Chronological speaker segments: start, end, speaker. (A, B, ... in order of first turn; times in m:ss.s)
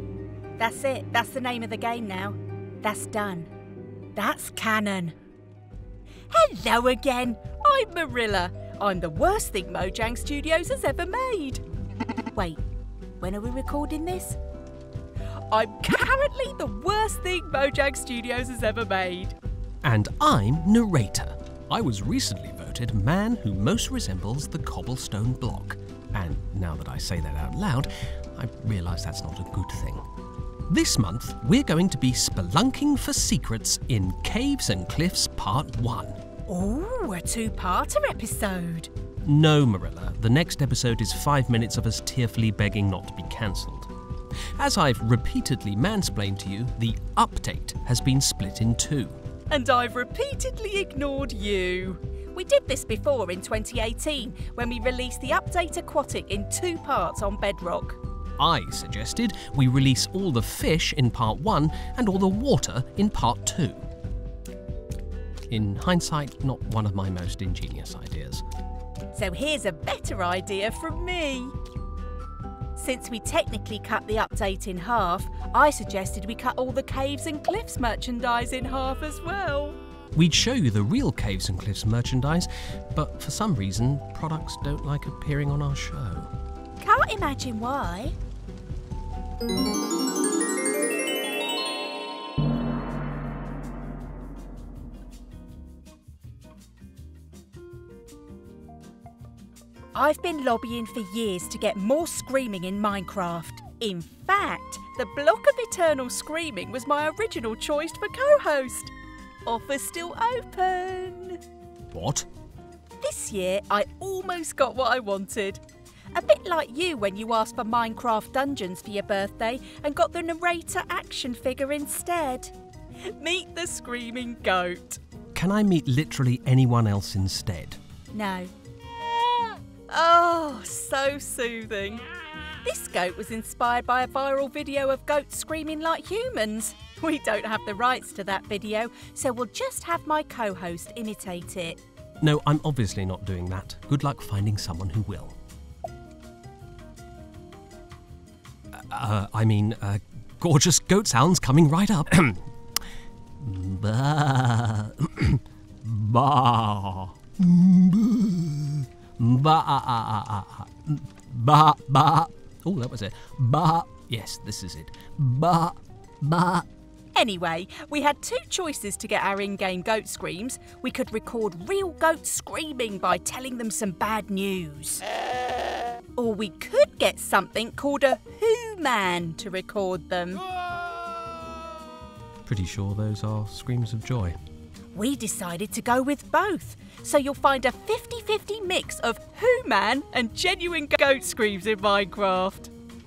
0:00.6-0:03.5 A
0:04.1-0:05.1 A
0:06.3-0:11.6 A
0:12.3-0:12.6 A
0:13.2-0:14.4 A
0:15.5-0:19.4 A
0:19.8-0:30.0 B
0:30.7-0:36.2 B
0:36.5-0:38.9 A
0:39.2-0:43.9 B
0:44.6-0:49.2 B
0:49.5-0:58.0 A
0:58.4-1:03.8 B
1:05.5-1:08.4 B
1:09.1-1:11.5 A
1:12.7-1:19.8 A
1:20.1-1:26.3 B
1:26.8-1:28.1 A
1:39.9-1:48.9 A
1:49.4-1:51.4 A
1:51.9-1:52.3 B
1:53.0-1:55.6 A
1:56.1-2:05.0 A
2:05.3-2:07.8 B
2:08.1-2:08.5 A
2:09.5-2:12.1 A
2:12.6-2:21.8 A
2:22.2-2:25.4 B
2:28.7-2:32.5 B
2:33.4-2:46.6 B
2:47.1-2:55.0 A
2:56.2-3:00.4 A
3:02.4-3:04.4 B
3:04.9-3:12.7 A